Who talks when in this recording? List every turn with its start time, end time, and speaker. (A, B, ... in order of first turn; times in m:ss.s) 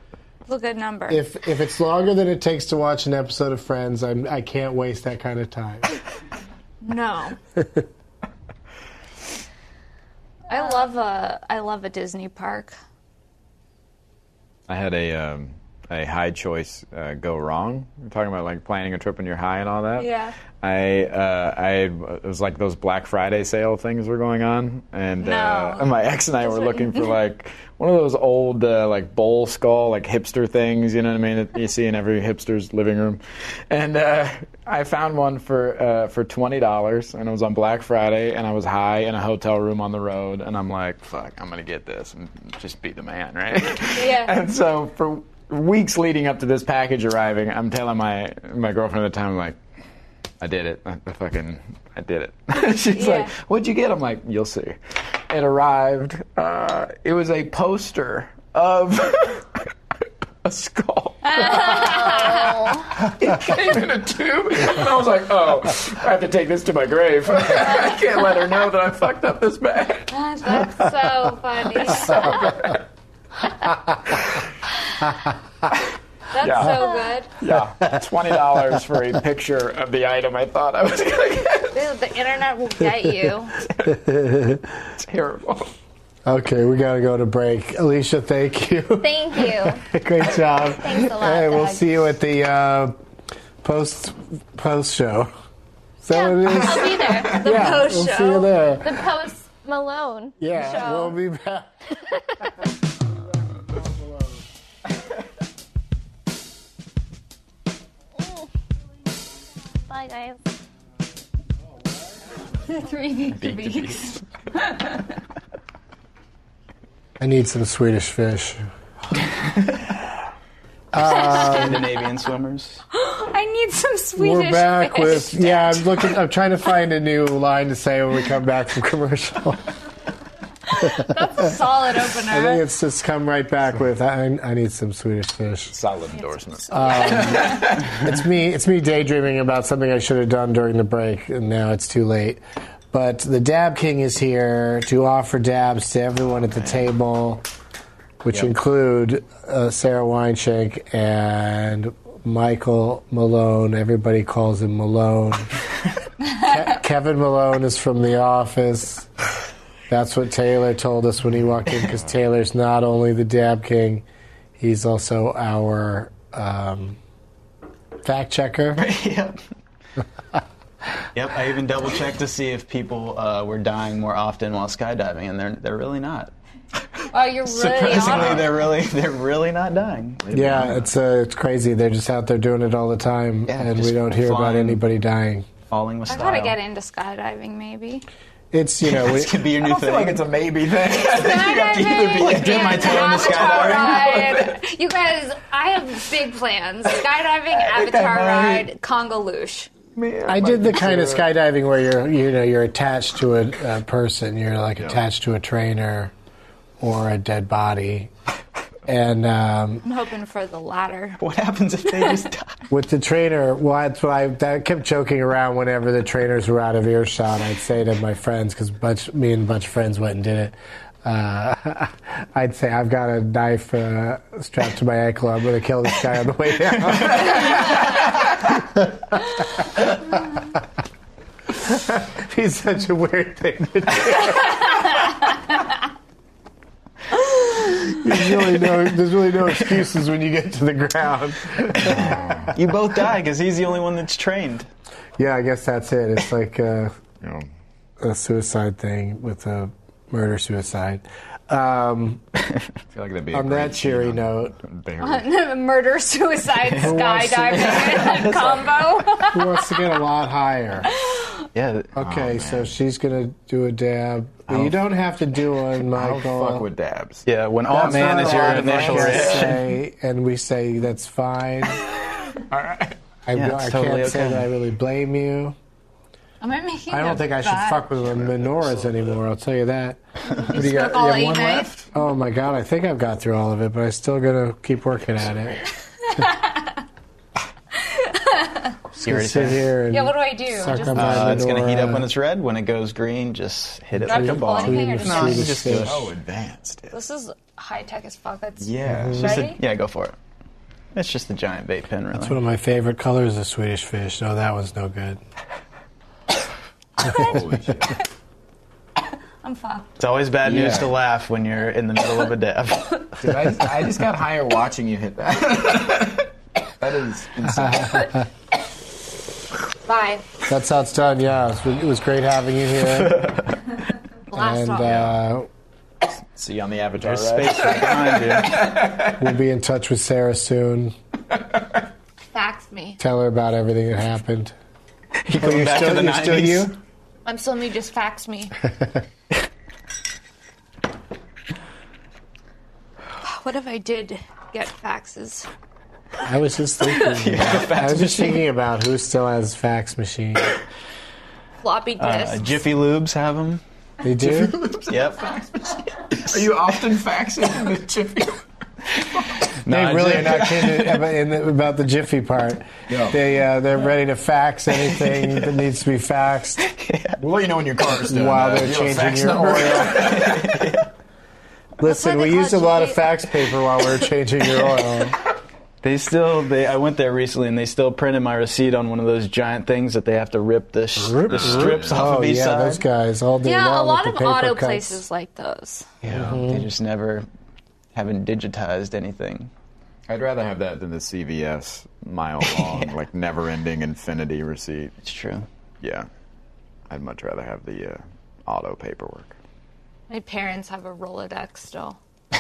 0:00.5-0:01.2 A
0:01.1-0:06.0 B
0:06.8-0:07.4 A
0:10.5-0:12.8 A
0:14.7-0:20.1 C
0:20.0-0:20.4 A
0:20.6-0:49.6 C
0:25.2-0:27.2 A
0:44.0-0:44.4 A
0:50.4-0:59.6 C
0:52.9-0:53.3 A
1:00.4-1:10.1 C
1:01.2-1:02.7 A
1:01.6-1:02.9 D
1:10.1-1:12.6 A
1:12.0-1:12.8 C
1:16.3-1:17.3 A
1:16.4-1:21.8 C
1:21.7-1:23.6 A
1:23.8-1:24.7 B
1:25.0-1:25.7 C
1:26.3-1:33.0 B
1:29.0-1:29.8 D
1:30.8-1:31.8 D
1:33.6-1:35.3 B
1:36.0-1:39.1 B
1:36.1-1:37.4 D
1:36.9-1:38.5 A
1:38.8-1:41.1 D
1:40.4-1:41.7 B
1:49.9-1:50.4 D
1:52.6-1:55.2 A
1:53.3-1:54.2 C
1:57.2-1:58.7 B
2:00.9-2:01.9 B
2:01.1-2:01.8 A
2:01.5-2:02.8 E
2:02.9-2:06.1 A
2:04.2-2:09.6 B
2:10.7-2:12.6 A
2:10.8-2:11.1 B
2:12.3-2:15.7 B
2:15.7-2:17.9 C
2:16.7-2:22.4 B
2:17.1-2:17.5 A
2:22.9-2:27.4 B
2:28.2-2:35.6 B
2:36.3-2:39.1 B
2:39.9-2:44.0 B
2:44.6-2:47.0 B
2:48.0-2:48.9 B
2:48.8-2:49.4 E
2:51.2-2:56.3 E
2:57.1-2:58.6 A
2:57.4-3:00.3 E
2:58.1-2:58.4 C
3:00.2-3:00.9 C
3:00.3-3:05.5 B
3:03.5-3:04.8 E
3:05.7-3:06.6 E
3:06.1-3:08.1 A
3:08.5-3:09.6 B
3:08.8-3:10.2 E
3:09.6-3:14.6 C
3:10.9-3:19.7 A
3:12.1-3:14.1 E
3:17.5-3:18.7 C
3:20.0-3:21.3 C
3:20.3-3:26.1 B
3:26.8-3:28.1 B
3:28.9-3:29.8 B
3:29.8-3:31.2 A
3:31.2-3:32.6 E
3:32.7-3:50.6 B
3:46.9-3:47.2 E
3:51.6-3:54.9 B
3:58.0-4:02.3 B
4:01.8-4:04.7 E
4:01.9-4:02.5 C
4:05.2-4:06.9 B
4:07.2-4:07.5 C
4:08.0-4:12.2 B
4:12.9-4:15.3 C
4:13.3-4:14.6 B
4:15.0-4:20.0 A
4:16.7-4:17.8 B
4:17.4-4:18.6 C
4:18.3-4:18.6 E
4:19.3-4:20.9 B
4:20.9-4:21.4 A
4:21.5-4:21.9 E
4:22.0-4:26.7 B
4:22.0-4:22.7 C
4:25.8-4:29.7 C
4:27.3-4:29.7 E
4:27.7-4:31.8 B
4:31.9-4:33.0 C
4:33.3-4:35.6 B
4:33.3-4:34.5 E
4:36.4-4:37.8 A
4:36.9-4:40.0 B
4:38.1-4:38.8 C
4:40.3-4:41.7 A
4:40.5-4:41.9 C
4:41.9-4:45.7 B
4:46.1-4:46.8 A
4:47.7-4:48.8 A
4:49.0-4:52.1 B
4:49.0-4:49.7 E
4:49.9-4:51.4 A
4:50.9-4:56.0 E
4:54.0-4:56.1 B
4:54.0-4:55.6 A
4:55.6-4:56.9 C
4:56.9-4:59.6 A
4:58.6-5:00.2 E
4:58.9-4:59.4 B
4:59.1-4:59.4 C
5:00.9-5:02.4 E
5:02.1-5:05.2 B
5:07.0-5:07.4 A
5:07.0-5:08.0 C
5:09.4-5:10.0 A
5:10.0-5:13.2 E
5:10.4-5:10.9 C
5:13.2-5:18.1 C
5:17.6-5:18.2 B
5:19.9-5:20.3 A
5:20.5-5:23.3 B
5:22.9-5:23.6 E
5:24.3-5:25.0 A
5:24.4-5:25.5 B
5:24.8-5:25.2 C
5:26.3-5:29.2 C
5:27.0-5:28.7 E
5:29.0-5:31.0 B
5:32.3-5:33.0 A
5:33.0-5:34.5 B
5:35.2-5:36.7 E
5:35.4-5:36.8 B
5:37.3-5:38.6 A
5:43.2-5:45.5 A
5:46.2-5:50.6 B
5:47.1-5:48.5 E
5:51.6-5:52.5 A
5:52.0-5:53.6 E
5:54.0-5:54.6 B
5:54.2-5:58.4 C
5:54.9-5:55.2 E
5:56.1-5:56.4 E
5:59.6-6:00.9 E
5:59.7-6:06.6 B
6:02.9-6:03.2 C
6:06.6-6:07.2 E
6:07.2-6:10.8 C
6:08.1-6:10.1 B
6:09.8-6:10.9 E
6:11.8-6:15.2 B
6:11.8-6:13.0 A
6:15.8-6:22.8 E
6:21.0-6:25.0 B
6:21.3-6:22.2 C
6:23.4-6:25.9 A
6:26.0-6:26.7 B
6:26.1-6:26.4 C
6:26.1-6:27.3 E
6:27.9-6:29.5 E
6:30.1-6:34.9 C
6:32.4-6:32.9 E
6:35.0-6:35.5 E
6:35.8-6:36.1 C
6:36.9-6:39.4 C
6:40.1-6:42.0 A